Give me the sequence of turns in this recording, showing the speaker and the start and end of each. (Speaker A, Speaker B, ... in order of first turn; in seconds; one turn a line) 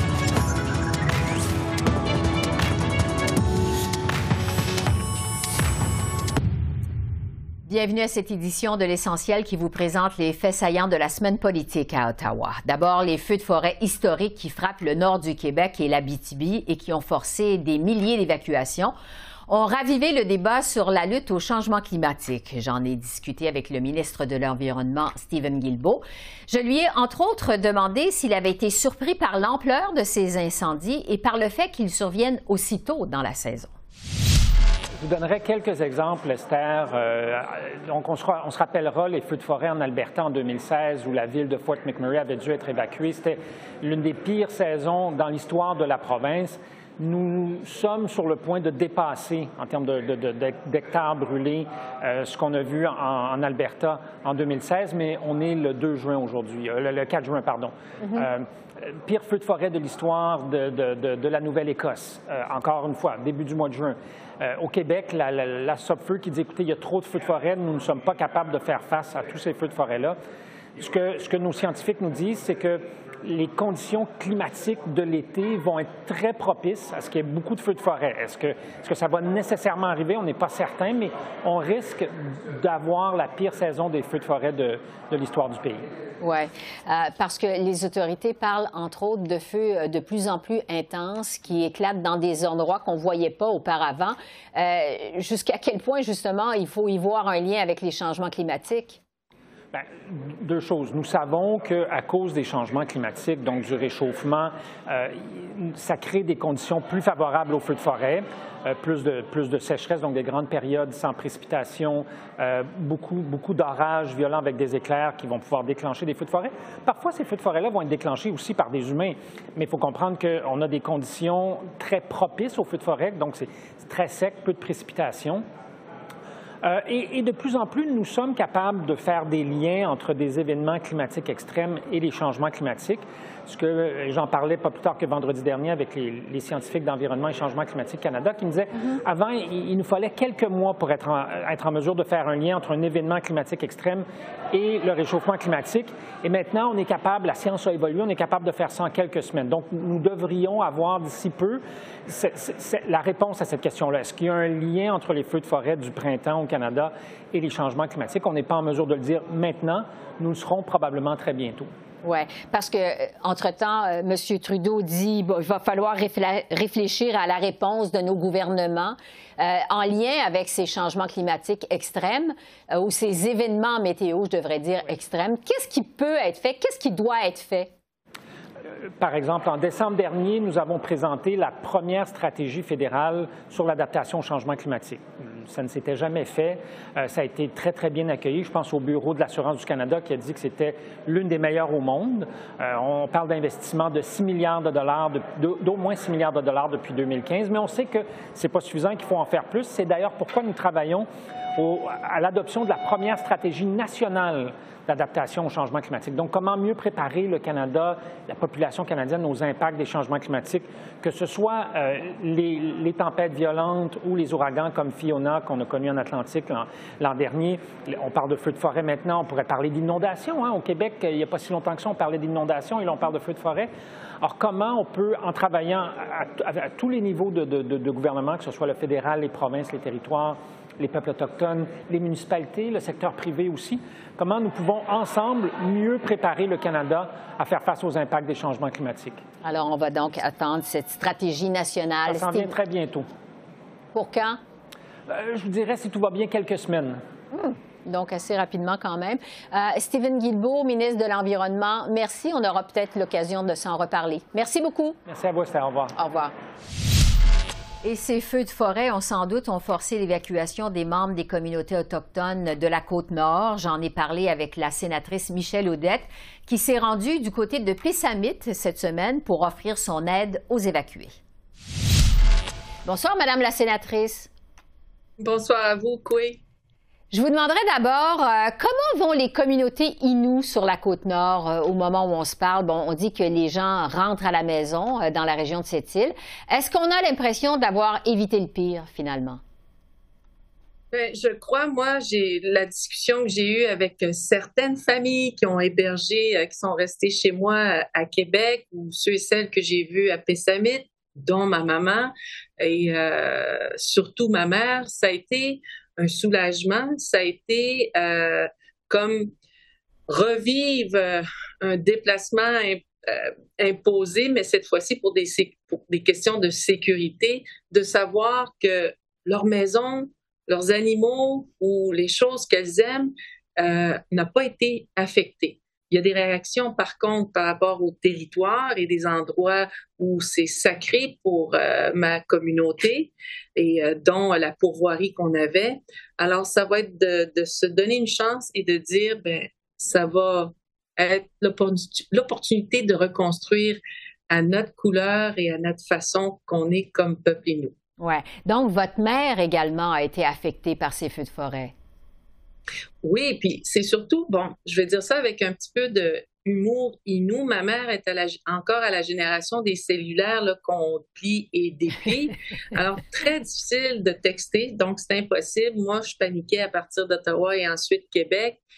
Speaker A: 7.7-18.9
Speaker A: 19.5-33.7
Speaker B: 35.0-70.2
Speaker B: 70.8-85.8
Speaker A: 86.2-99.0
Speaker B: 99.7-125.4
Speaker B: 126.6-161.7
Speaker A: 162.0-177.7
Speaker B: 178.7-223.7
Speaker B: 224.2-239.2
Speaker A: 239.4-242.5
Speaker B: 242.1-243.1
Speaker A: 243.9-244.4
Speaker B: 245.1-247.0
Speaker A: 247.3-255.0
Speaker B: 255.1-255.9
Speaker A: 255.9-256.3
Speaker A: 257.8-271.1
Speaker A: 272.8-274.3
Speaker C: 275.2-276.4
Speaker A: 277.1-289.4
Speaker C: 290.9-309.3
Speaker C: 310.1-347.7
Speaker A: 348.0-351.7
Speaker C: 353.0-368.6